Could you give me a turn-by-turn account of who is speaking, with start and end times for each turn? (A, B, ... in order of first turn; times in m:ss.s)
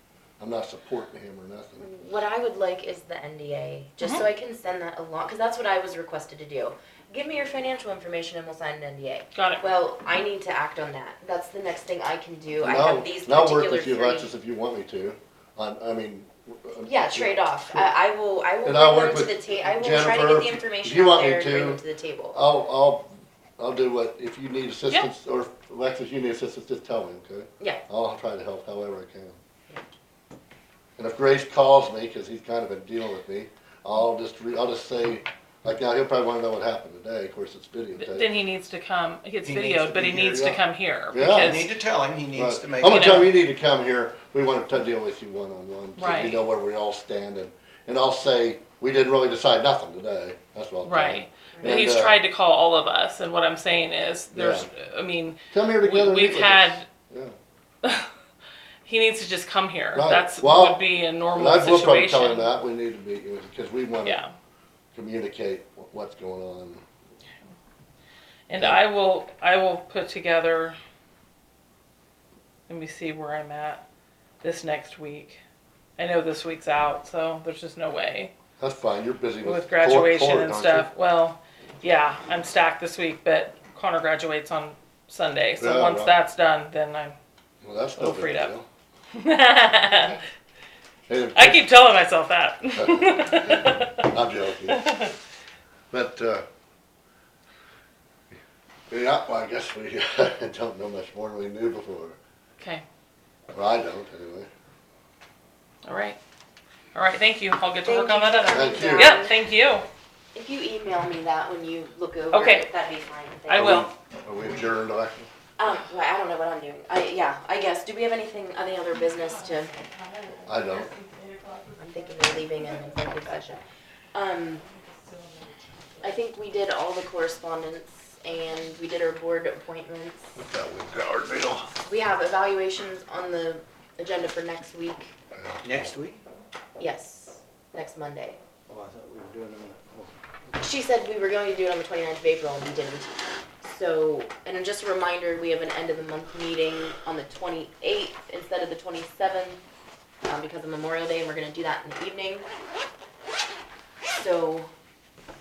0:00.4-0:01.8 A
0:01.8-0:14.3 B
0:09.3-0:09.6 C
0:12.6-0:17.9 A
0:16.8-0:22.4 B
0:18.6-0:21.8 A
0:22.3-0:29.4 A
0:31.0-0:38.3 A
0:38.0-0:41.7 C
0:39.4-0:40.2 D
0:39.9-0:41.7 A
0:41.4-0:43.3 D
0:42.3-0:52.2 A
0:42.9-0:43.3 C
0:46.0-0:46.4 C
0:50.8-0:56.9 C
0:51.5-0:51.9 B
0:54.3-0:54.7 A
0:55.5-0:57.3 A
0:57.8-0:58.1 C
0:58.8-1:02.5 C
0:59.9-1:00.8 A
1:01.3-1:04.2 A
1:04.0-1:04.3 C
1:04.9-1:06.8 A
1:08.5-1:10.8 C
1:08.5-1:08.8 A
1:12.7-1:13.8 C
1:14.4-1:15.4 C
1:16.0-1:18.3 C
1:18.6-1:20.9 A
1:19.4-1:27.2 C
1:25.6-1:26.2 A
1:27.6-1:28.6 A
1:28.0-1:28.5 C
1:29.2-1:30.2 C
1:29.7-1:30.1 A
1:31.1-1:31.7 A
1:31.3-1:34.1 C
1:32.7-1:35.1 A
1:34.7-1:35.1 C
1:35.9-1:36.4 A
1:38.9-1:42.2 A
1:42.6-1:42.8 C
1:43.5-1:44.5 A
1:45.8-1:46.2 C
1:46.9-1:49.8 C
1:47.8-1:49.4 B
1:48.5-1:49.2 A
1:50.3-1:53.9 B
1:52.3-1:52.7 C
1:53.5-1:53.9 C
1:53.5-1:55.3 A
1:55.6-1:59.7 B
1:59.8-2:01.8 C
2:00.5-2:00.9 A
2:01.8-2:03.6 B
2:04.1-2:04.6 B
2:04.6-2:06.0 C
2:06.0-2:10.4 B
2:10.4-2:11.7 A
2:11.7-2:15.1 B
2:15.3-2:15.6 A
2:15.6-2:16.2 D
2:16.8-2:18.4 B
2:18.7-2:20.1 D
2:20.6-2:29.6 B
2:30.2-2:32.5 B
2:34.1-2:34.7 B